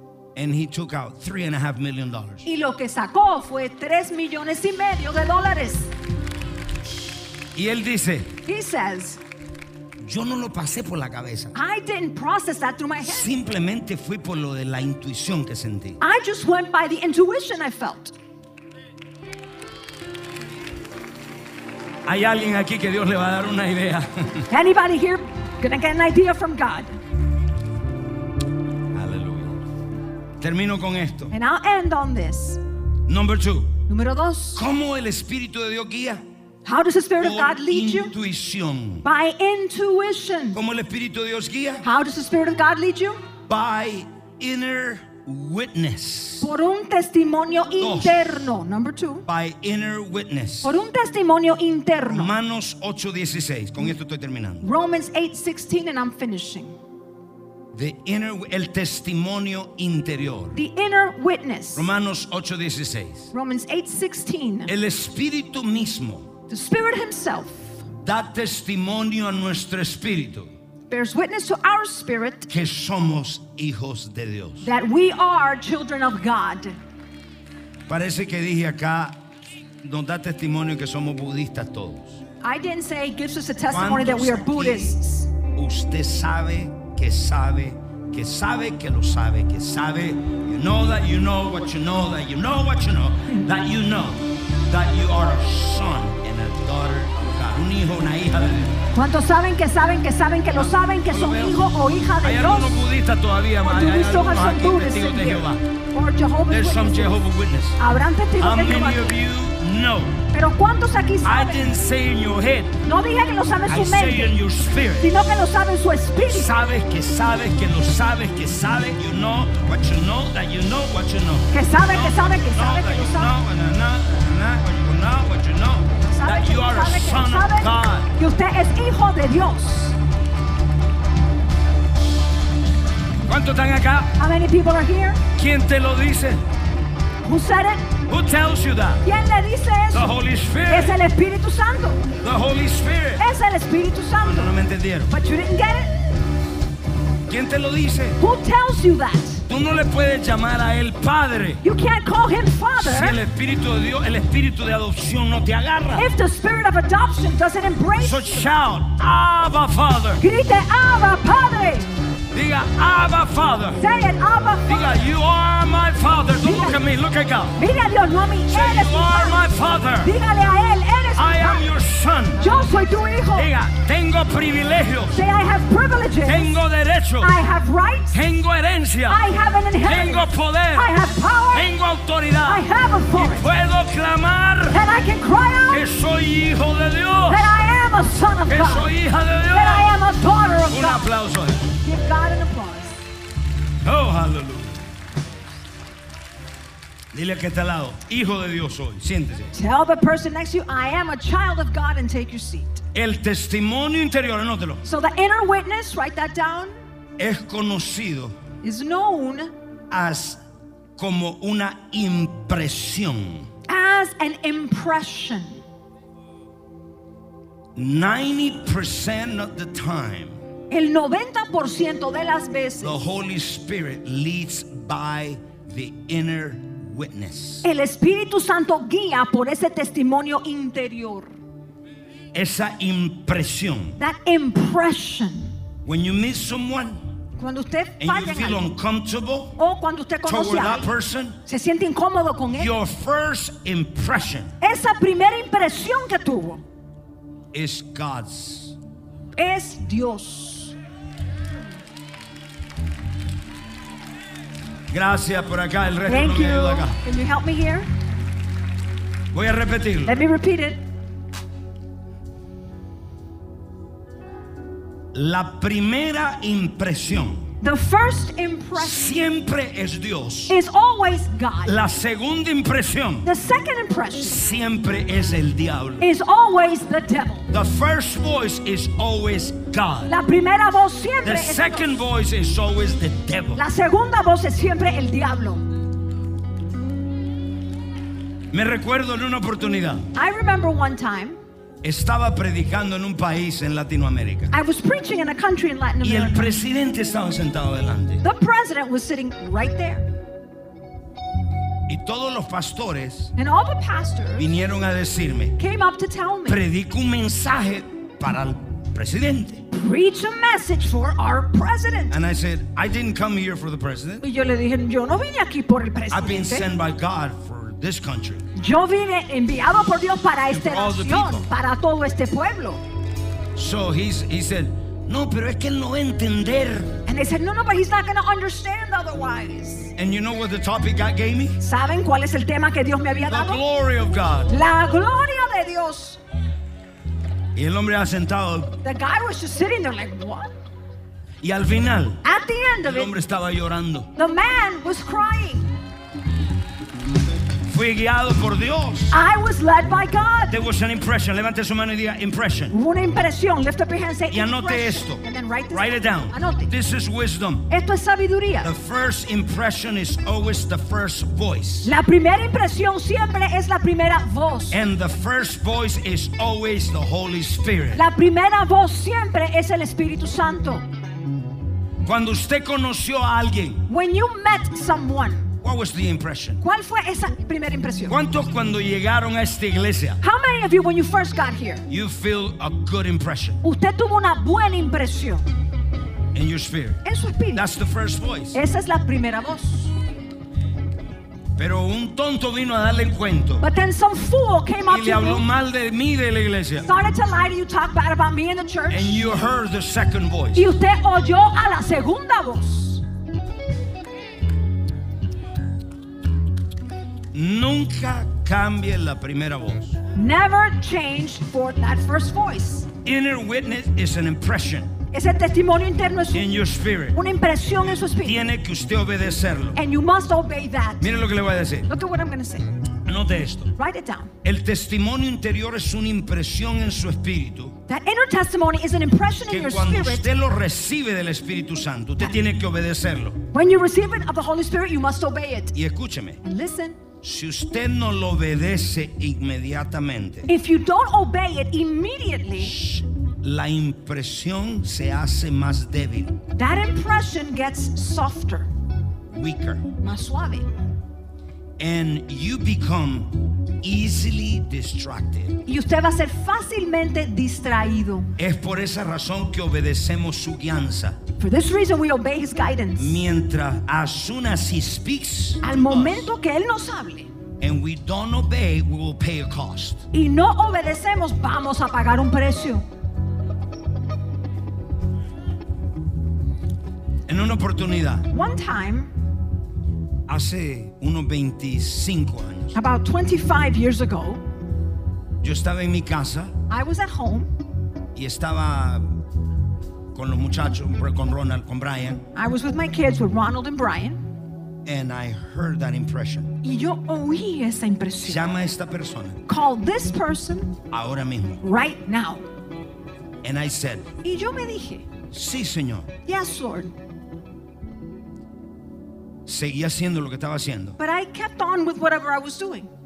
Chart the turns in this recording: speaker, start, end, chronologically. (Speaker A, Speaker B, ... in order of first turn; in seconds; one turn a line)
Speaker A: 0.3-2.5
Speaker B: 2.4-5.9
Speaker A: 7.5-8.3
Speaker B: 8.4-9.2
Speaker A: 10.0-11.5
Speaker B: 11.5-13.3
Speaker A: 13.0-16.0
Speaker B: 16.0-18.1
Speaker A: 22.1-24.5
Speaker B: 24.5-26.9
Speaker A: 28.9-29.6
Speaker A: 30.4-31.3
Speaker B: 31.3-32.6
Speaker A: 33.0-33.8
Speaker B: 33.9-34.6
Speaker A: 34.5-36.2
Speaker B: 36.6-38.1
Speaker A: 37.2-39.0
Speaker B: 39.0-40.6
Speaker A: 40.5-41.9
Speaker B: 41.8-43.2
Speaker A: 43.5-46.5
Speaker B: 46.4-49.2
Speaker A: 47.8-48.5
Speaker A: 49.3-50.7
Speaker B: 50.6-52.3
Speaker A: 52.0-54.7
Speaker B: 54.6-56.8
Speaker A: 57.7-60.6
Speaker B: 60.5-61.9
Speaker A: 61.7-63.3
Speaker B: 63.3-64.7
Speaker A: 64.7-66.3
Speaker B: 66.5-67.8
Speaker A: 68.0-70.5
Speaker B: 70.9-72.5
Speaker A: 72.5-74.7
Speaker B: 74.6-76.8
Speaker A: 77.9-79.2
Speaker A: 79.8-82.2
Speaker B: 82.4-85.3
Speaker A: 83.7-98.8
Speaker B: 98.9-102.7
Speaker A: 100.5-101.6
Speaker A: 102.2-105.6
Speaker B: 103.6-107.2
Speaker A: 106.5-107.8
Speaker B: 107.8-109.2
Speaker A: 108.4-110.2
Speaker B: 110.3-111.7
Speaker A: 111.2-112.8
Speaker B: 112.8-114.3
Speaker A: 113.7-115.2
Speaker B: 115.0-116.5
Speaker A: 116.2-128.1
Speaker B: 121.5-123.3
Speaker B: 126.0-129.9
Speaker A: 133.3-134.1
Speaker B: 134.2-135.2
Speaker A: 135.3-136.4
Speaker B: 137.2-137.9
Speaker A: 138.1-139.0
Speaker B: 139.0-142.1
Speaker A: 139.9-141.0
Speaker A: 142.2-143.2
Speaker B: 143.2-144.5
Speaker A: 144.2-145.1
Speaker B: 145.1-145.9
Speaker A: 147.3-148.2
Speaker B: 148.2-149.4
Speaker A: 149.5-151.6
Speaker B: 151.6-153.2
Speaker A: 152.8-156.1
Speaker B: 155.9-158.5
Speaker A: 158.0-160.2
Speaker B: 160.2-161.9
Speaker A: 162.3-163.8
Speaker B: 163.8-165.0
Speaker A: 164.7-167.6
Speaker B: 166.4-166.8
Speaker B: 167.6-169.5
Speaker A: 168.5-170.1
Speaker B: 170.0-171.7
Speaker A: 171.2-172.6
Speaker B: 172.4-173.5
Speaker A: 173.3-175.2
Speaker B: 175.1-176.6
Speaker A: 176.2-177.3
Speaker B: 177.2-178.2
Speaker A: 178.1-179.3
Speaker B: 179.1-181.7
Speaker A: 179.8-180.9
Speaker A: 181.5-184.8
Speaker B: 182.4-183.5
Speaker B: 184.7-185.8
Speaker A: 185.7-187.5
Speaker B: 187.2-188.9
Speaker A: 188.5-190.0
Speaker B: 189.5-191.1
Speaker A: 190.7-191.7
Speaker B: 191.8-193.0
Speaker A: 193.8-194.8
Speaker A: 197.1-199.5
Speaker B: 199.5-202.8
Speaker A: 202.9-204.8
Speaker B: 204.8-206.7
Speaker A: 207.2-208.4
Speaker B: 208.6-209.5
Speaker A: 209.9-210.4
Speaker A: 211.0-213.5
Speaker B: 213.7-215.6
Speaker A: 217.7-220.4
Speaker B: 220.7-223.0
Speaker A: 222.8-227.6
Speaker B: 227.6-231.3
Speaker A: 232.3-234.0
Speaker B: 234.0-235.5
Speaker A: 235.8-237.1
Speaker B: 237.4-238.7
Speaker A: 238.0-239.6
Speaker B: 239.6-240.9
Speaker A: 240.2-241.4
Speaker B: 241.4-242.7
Speaker A: 242.6-244.5
Speaker B: 244.6-246.6
Speaker A: 247.5-248.8
Speaker B: 249.3-250.7
Speaker A: 254.9-257.0
Speaker B: 256.1-257.9
Speaker A: 259.3-260.2
Speaker B: 260.0-260.8
Speaker A: 265.1-267.5
Speaker B: 267.6-269.1
Speaker A: 268.7-270.6
Speaker B: 270.5-271.8
Speaker A: 271.6-273.3
Speaker B: 273.2-274.4
Speaker A: 274.2-276.1
Speaker B: 276.0-277.5
Speaker A: 277.5-280.1
Speaker B: 280.1-282.0
Speaker A: 281.2-283.6
Speaker B: 283.5-285.6
Speaker A: 288.5-290.1
Speaker B: 290.1-291.4
Speaker A: 291.8-294.5
Speaker B: 294.5-296.6
Speaker A: 296.0-298.2
Speaker B: 298.2-300.1
Speaker A: 301.9-303.3
Speaker B: 303.4-304.6
Speaker A: 304.4-305.6
Speaker B: 305.6-306.6
Speaker A: 306.4-309.6
Speaker B: 309.8-312.1
Speaker A: 312.1-314.2
Speaker B: 314.2-316.7
Speaker A: 316.1-318.5
Speaker B: 318.5-322.8
Speaker A: 320.5-321.5
Speaker A: 323.5-327.0
Speaker B: 327.1-329.9
Speaker A: 329.9-331.6
Speaker B: 331.6-333.6
Speaker A: 333.3-334.6
Speaker B: 334.5-336.2
Speaker A: 337.5-338.8
Speaker B: 338.8-340.5
Speaker A: 341.4-342.2
Speaker B: 342.2-343.1
Speaker A: 342.8-344.1
Speaker B: 344.1-345.8
Speaker A: 347.7-349.2
Speaker B: 349.1-350.6
Speaker A: 350.5-352.7
Speaker B: 352.7-356.7
Speaker A: 354.3-357.7
Speaker B: 357.7-358.7
Speaker A: 358.6-361.9
Speaker B: 361.8-364.8
Speaker A: 364.7-368.0
Speaker B: 367.9-370.9
Speaker A: 372.0-373.9
Speaker B: 373.9-375.6
Speaker A: 375.6-376.6
Speaker B: 376.6-378.2
Speaker A: 378.1-380.2
Speaker B: 380.2-381.9
Speaker A: 381.9-383.6
Speaker B: 383.6-385.4
Speaker A: 386.3-388.6
Speaker B: 387.0-387.6
Speaker B: 388.5-389.9
Speaker A: 391.6-393.6
Speaker B: 393.6-395.4
Speaker A: 394.9-396.9
Speaker B: 396.8-399.3
Speaker A: 398.9-400.8
Speaker B: 400.5-403.0
Speaker A: 407.3-410.0
Speaker B: 410.1-412.9
Speaker A: 413.0-414.9
Speaker B: 415.1-416.5
Speaker A: 416.3-417.2
Speaker B: 417.1-418.4
Speaker A: 417.8-419.8
Speaker B: 419.7-421.1
Speaker A: 421.0-421.9
Speaker B: 421.9-422.7
Speaker A: 423.0-423.7
Speaker B: 423.8-424.3
Speaker A: 424.4-427.8
Speaker B: 427.9-430.3
Speaker A: 429.5-433.4
Speaker B: 433.5-435.8
Speaker A: 435.7-436.4
Speaker B: 436.4-437.0
Speaker A: 437.2-440.5
Speaker B: 440.5-442.8
Speaker A: 442.6-446.4
Speaker B: 446.6-448.7
Speaker A: 449.3-449.9
Speaker B: 450.0-450.7
Speaker A: 451.8-455.6
Speaker B: 455.6-458.4
Speaker A: 458.4-461.2
Speaker B: 461.4-463.2
Speaker A: 462.9-466.3
Speaker B: 465.6-467.3
Speaker A: 467.6-470.1
Speaker B: 470.1-472.8
Speaker A: 477.3-478.3
Speaker B: 478.3-479.1
Speaker A: 480.3-482.8
Speaker B: 482.7-484.4
Speaker A: 485.4-486.6
Speaker B: 486.7-487.5
Speaker A: 488.1-489.2
Speaker A: 490.1-492.3
Speaker B: 492.3-494.2
Speaker A: 494.8-496.6
Speaker B: 496.6-498.5
Speaker A: 498.2-499.4
Speaker B: 499.4-500.8
Speaker A: 500.9-501.6
Speaker B: 501.6-502.4
Speaker A: 503.4-504.1
Speaker B: 504.2-505.1
Speaker A: 505.3-506.1
Speaker B: 506.2-506.9
Speaker A: 509.4-511.0
Speaker B: 511.0-512.9